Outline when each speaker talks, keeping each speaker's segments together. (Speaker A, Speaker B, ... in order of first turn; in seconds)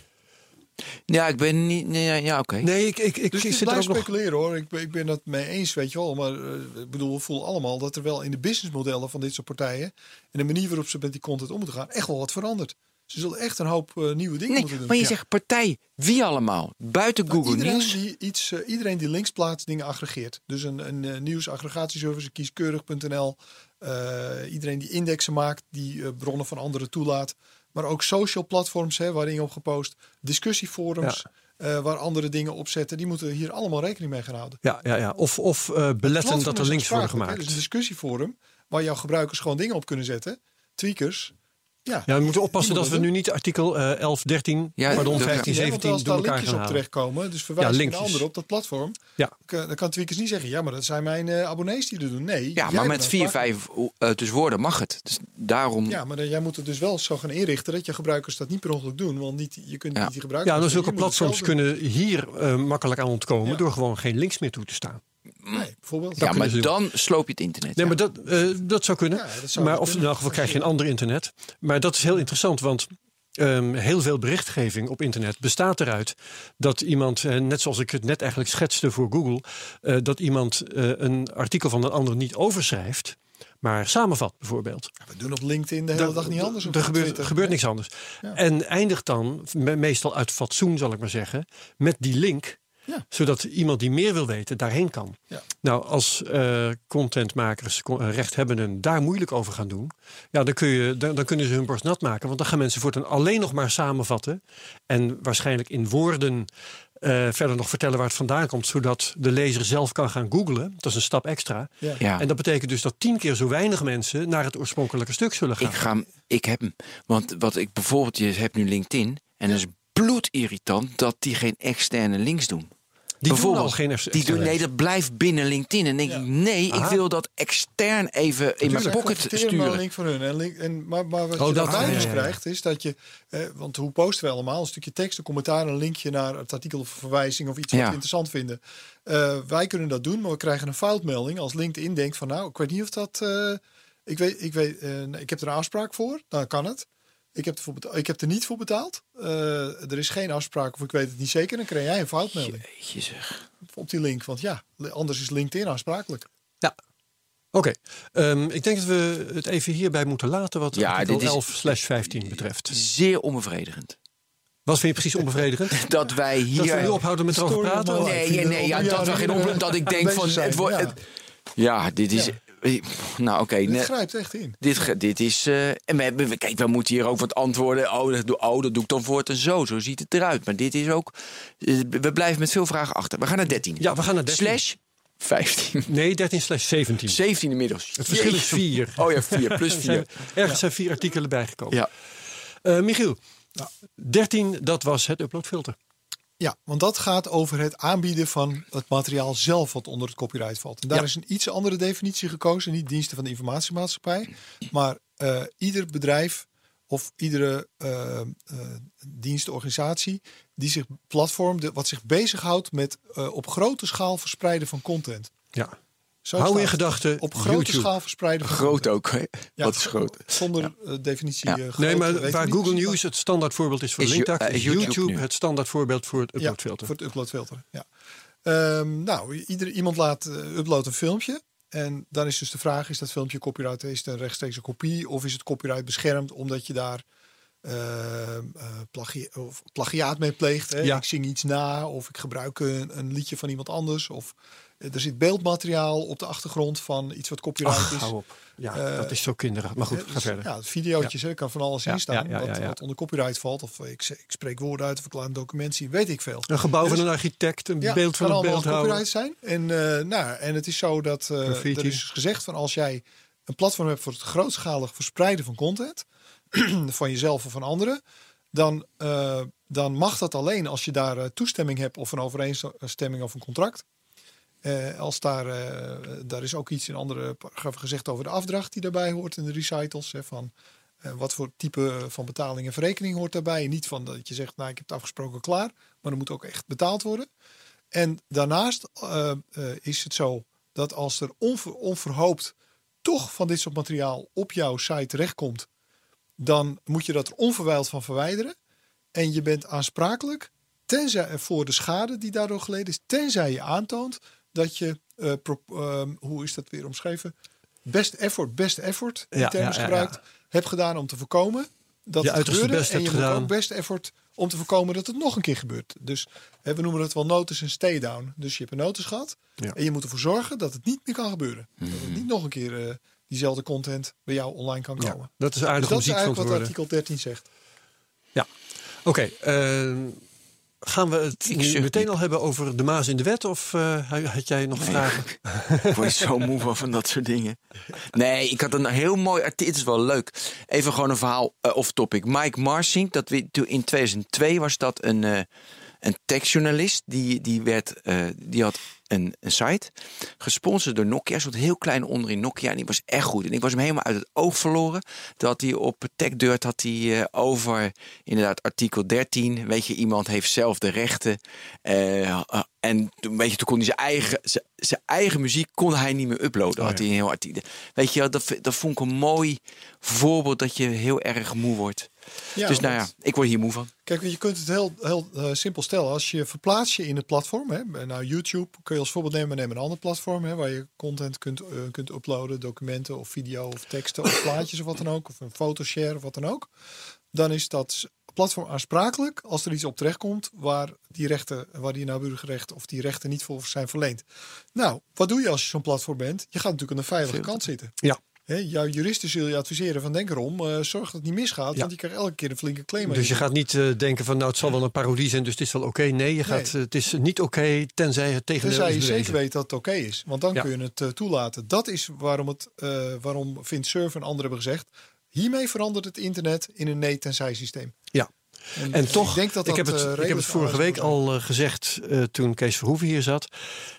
Speaker A: 1.1-2.7, 14.5-18.0, 44.8-45.5, 52.6-56.0, 66.2-68.0, 112.0-112.2, 115.6-122.7, 123.3-129.8, 131.8-132.1, 137.7-138.0, 152.7-153.5, 160.7-164.0, 165.7-167.0, 168.0-171.0, 171.6-173.9, 174.6-185.9, 187.1-190.2, 218.4-220.7, 224.0-225.2, 321.8-322.2, 331.5-332.1, 334.8-337.6, 338.1-345.5, 346.0-372.1, 372.6-373.9
Speaker B: 2.6-4.1, 34.6-37.6, 42.1-46.8, 47.6-48.3, 60.5-65.0, 66.2-66.7, 67.8-84.9, 85.9-92.6, 93.1-106.5, 107.0-115.8, 123.2-124.6, 126.7-127.0, 128.6-129.0, 131.4-132.4, 157.5-162.8, 164.7-165.9, 166.6-169.6, 183.8-184.6, 185.9-187.2, 188.0-191.8, 192.6-193.2, 194.0-195.8, 216.4-217.9, 221.8-226.9, 247.6-250.5, 251.9-252.8, 256.5-259.0, 261.4-262.0, 309.3-310.2, 312.2-313.5, 325.0-326.7, 329.1-330.2, 330.8-336.2, 403.0-409.4, 418.1-423.8
Speaker C: 3.3-15.1, 17.3-34.6, 36.0-41.4, 41.9-43.1, 44.9-53.5, 55.9-61.6, 65.5-66.3, 69.1-70.7, 85.0-87.5, 128.7-152.7, 153.7-156.3, 166.7-171.0, 173.7-174.6, 196.4-215.3, 216.2-218.9, 219.6-223.0, 226.4-227.9, 228.4-237.0, 237.6-248.1, 248.7-249.2, 249.9-257.1, 257.8-268.0, 268.5-273.9, 274.6-287.3, 287.9-295.7, 296.4-298.6, 299.1-307.3, 307.9-327.5, 372.6-373.1, 374.1-386.7, 387.3-397.9, 398.5-403.5, 406.4-406.7, 408.6-418.0, 418.8-421.2